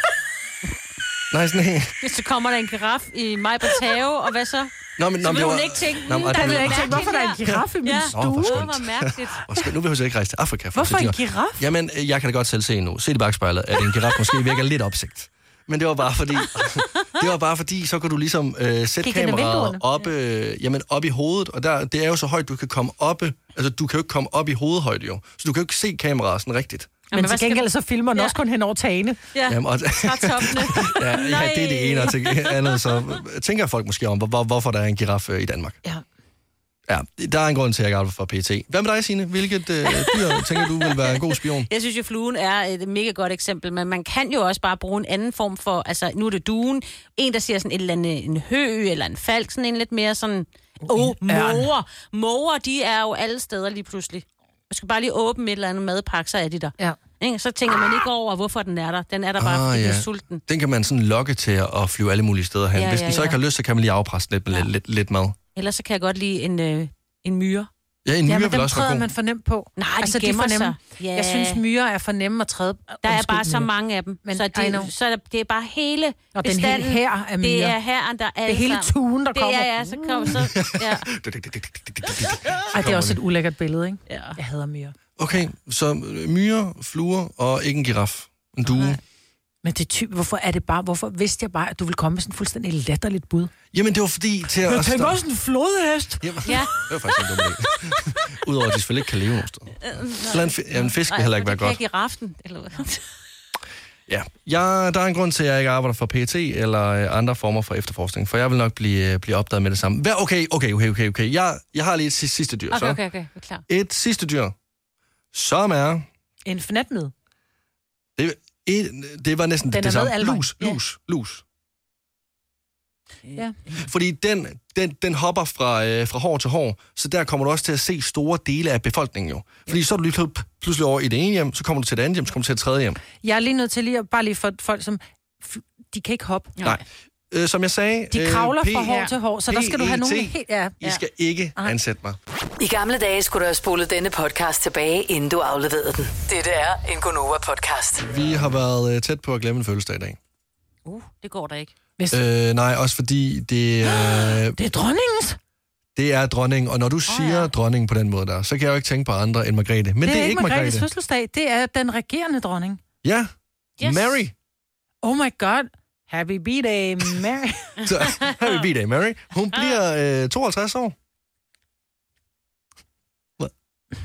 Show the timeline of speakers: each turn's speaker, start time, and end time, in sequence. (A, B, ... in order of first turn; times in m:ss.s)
0:01.3-0:02.0 A
0:02.0-0:09.5 B
0:05.0-0:26.9 A
0:06.2-0:08.6 C
0:10.7-0:11.7 C
0:19.0-0:19.8 C
0:27.1-0:27.6 B
0:27.1-0:29.2 C
0:29.3-0:32.6 B
0:29.5-0:35.8 A
0:36.9-0:41.7 A
0:40.0-0:41.2 B
0:41.7-1:00.4 B
0:50.8-0:51.7 C
0:59.4-1:05.4 A
1:02.7-1:03.4 B
1:05.6-1:07.7 B
1:08.0-1:09.1 A
1:08.2-1:13.7 C
1:09.8-1:11.6 B
1:13.0-1:21.1 B
1:14.2-1:14.9 C
1:16.3-1:17.8 C
1:18.5-1:20.1 C
1:20.4-1:23.2 A
1:22.7-1:24.9 C
1:24.1-1:24.4 B
1:25.2-1:29.0 A
1:28.7-1:29.0 B
1:29.6-1:33.5 C
1:33.7-1:35.2 A
1:34.6-1:36.6 C
1:36.2-1:41.8 A
1:36.4-1:36.8 B
1:39.8-1:43.0 B
1:44.1-1:53.0 A
1:52.7-1:53.6 B
1:53.7-1:54.5 A
1:55.3-1:56.1 A
1:56.4-1:57.1 C
1:58.2-2:01.4 A
1:59.7-2:00.8 C
2:03.8-2:13.0 A
2:13.2-2:16.5 C
2:16.6-2:22.2 A
2:18.1-2:20.8 C
2:22.6-2:28.1 D
2:28.1-2:30.2 A
2:30.8-2:31.7 B
2:32.1-2:34.6 A
2:34.6-2:35.4 C
2:35.9-2:40.8 A
2:37.1-2:37.5 B
2:40.0-2:42.8 C
2:43.0-2:44.3 A
2:43.8-2:44.2 B
2:45.0-2:47.9 C
2:47.8-2:50.9 A
2:48.2-2:48.5 B